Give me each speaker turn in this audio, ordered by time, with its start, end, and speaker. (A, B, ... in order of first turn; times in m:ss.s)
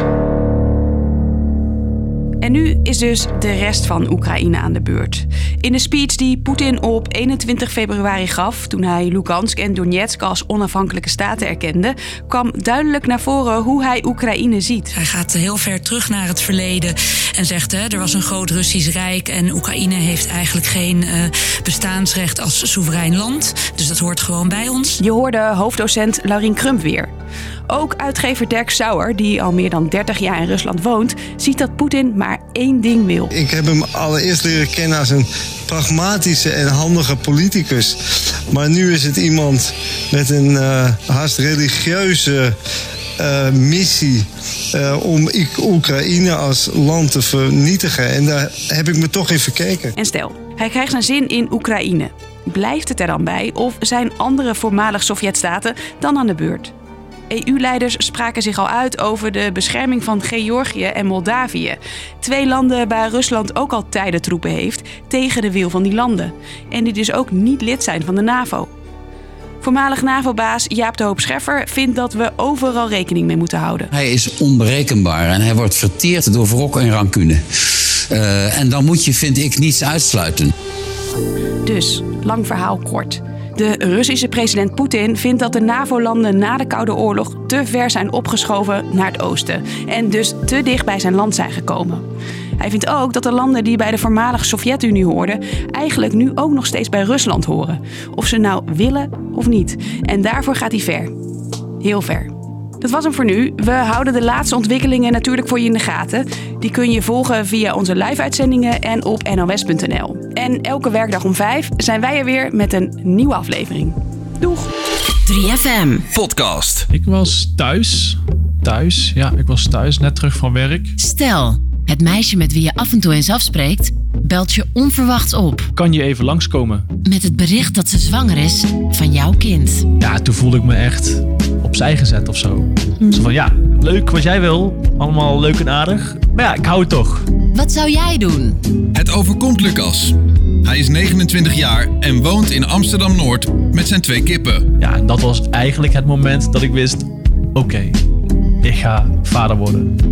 0:02.4-0:14.9 A
0:14.9-0:25.0 B
0:25.0-0:27.1 A
0:27.7-0:33.3 A
0:33.3-0:38.0 C
0:38.5-0:42.5 C
0:43.2-0:49.9 C
0:49.9-0:56.7 A
0:57.3-1:08.7 A
1:09.6-1:13.9 A
1:13.9-1:20.5 D
1:21.6-1:32.0 A
1:32.6-1:41.1 A
1:41.8-1:54.7 A
1:55.3-1:56.0 E
1:56.1-1:56.9 F
1:56.9-2:00.9 G
2:01.0-2:05.6 E
2:05.7-2:06.8 G
2:07.0-2:09.8 E
2:10.0-2:17.2 G
2:17.5-2:18.6 E
2:18.9-2:24.6 F
2:24.8-2:28.0 G
2:28.6-2:29.9 G